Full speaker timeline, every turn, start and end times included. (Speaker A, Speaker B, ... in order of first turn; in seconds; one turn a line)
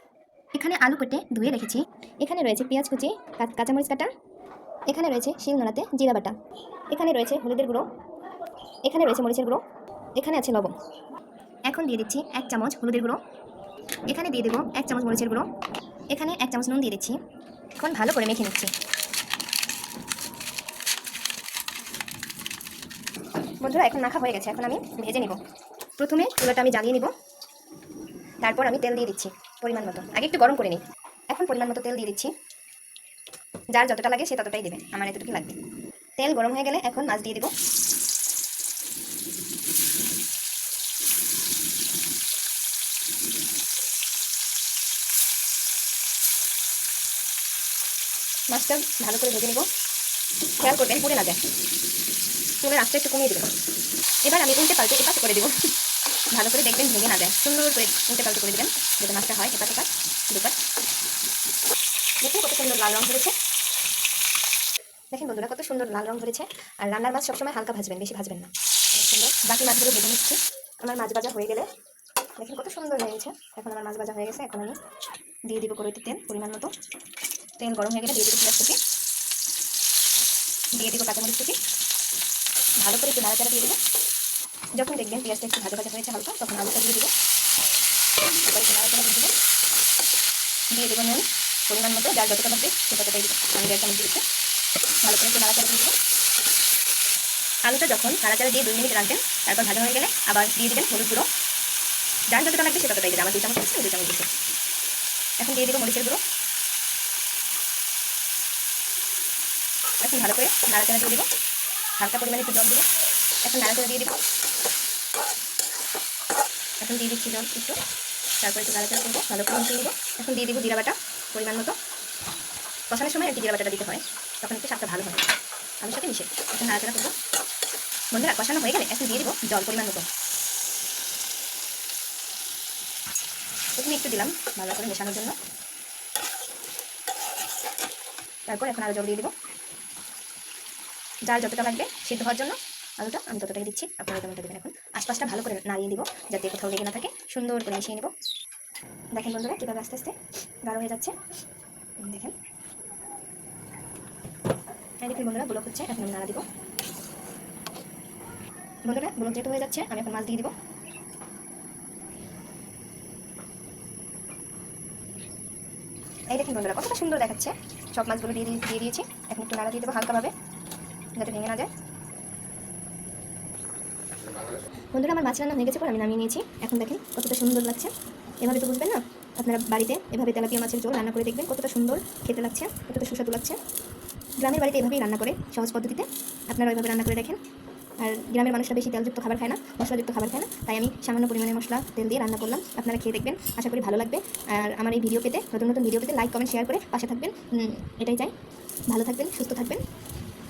Speaker A: 0.5-4.1
Speaker A: 4.9-6.4
Speaker A: 6.9-7.9
Speaker A: 8.8-9.6
Speaker A: 10.2-10.8
Speaker A: 11.7-13.2
Speaker A: 14.1-15.5
Speaker A: 16.1-17.2
Speaker A: 17.8-18.7
Speaker A: 23.6-25.4
Speaker A: 26.0-27.1
Speaker A: 28.4-32.3
Speaker A: 33.7-35.6
Speaker A: 36.2-37.5
Speaker A: 48.5-49.7
Speaker A: 50.6-51.4
Speaker A: 52.6-53.6
Speaker A: 54.2-55.7
Speaker A: 56.3-60.6
Speaker A: 62.2-63.4
Speaker A: 65.1-71.7
Speaker A: 72.4-74.8
Speaker A: 75.5-76.7
Speaker A: 77.6-78.8
Speaker A: 80.7-81.6
Speaker A: 82.8-83.8
Speaker A: 84.8-87.1
Speaker A: 88.3-89.3
Speaker A: 90.7-94.2
Speaker A: 95.0-96.0
Speaker A: 97.6-101.3
Speaker A: 102.3-104.3
Speaker A: 105.4-106.2
Speaker A: 110.0-111.3
Speaker A: 112.0-112.9
Speaker A: 113.4-114.2
Speaker A: 116.8-117.8
Speaker A: 118.4-121.8
Speaker A: 122.9-125.3
Speaker A: 125.8-127.2
Speaker A: 128.1-130.1
Speaker A: 133.8-135.4
Speaker A: 138.5-139.3
Speaker A: 141.3-148.1
Speaker A: 149.1-151.2
Speaker A: 152.0-152.3
Speaker A: 155.0-156.5
Speaker A: 158.8-160.5
Speaker A: 166.3-170.3
Speaker A: 171.2-171.7
Speaker A: 174.9-183.6
Speaker A: 184.4-187.4
Speaker A: 188.0-198.3
Speaker A: 198.9-199.8